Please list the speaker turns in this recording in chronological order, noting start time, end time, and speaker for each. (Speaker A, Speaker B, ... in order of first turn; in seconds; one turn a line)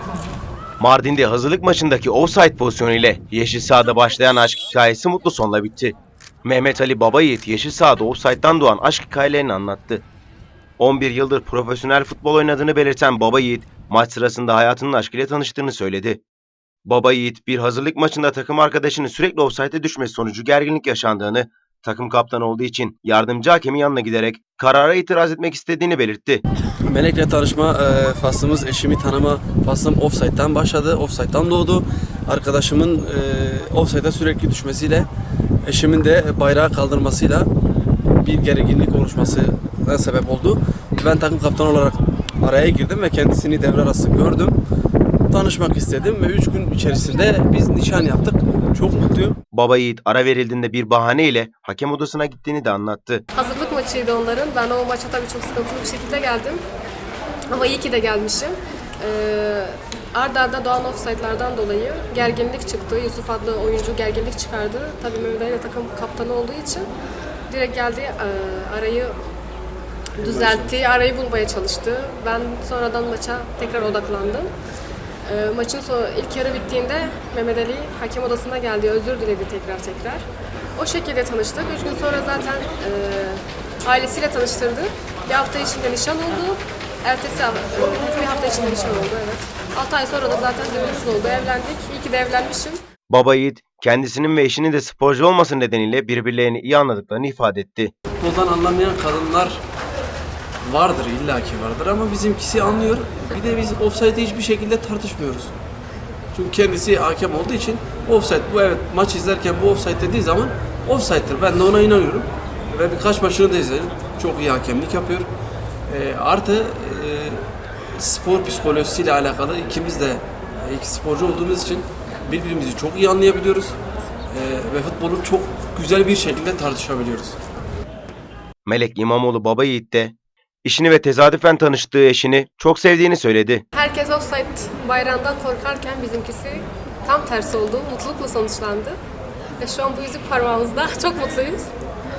Speaker A: 0.8-10.0
Speaker A: 10.8-16.2
Speaker A: 16.9-26.4
Speaker B: 26.9-35.1
Speaker B: 35.6-37.5
Speaker B: 38.2-44.6
Speaker B: 45.3-49.4
Speaker A: 49.5-53.2
Speaker C: 53.4-56.6
Speaker C: 57.5-66.9
Speaker C: 67.5-69.2
Speaker C: 70.2-74.5
Speaker B: 70.2-70.7
Speaker C: 75.2-80.2
Speaker C: 80.8-92.8
Speaker A: 93.1-97.9
Speaker B: 98.2-99.6
Speaker B: 100.7-105.5
Speaker B: 106.3-115.3
Speaker B: 115.9-123.8
Speaker B: 124.3-127.4
Speaker A: 128.7-133.6
Speaker C: 133.7-139.0
Speaker C: 139.6-141.7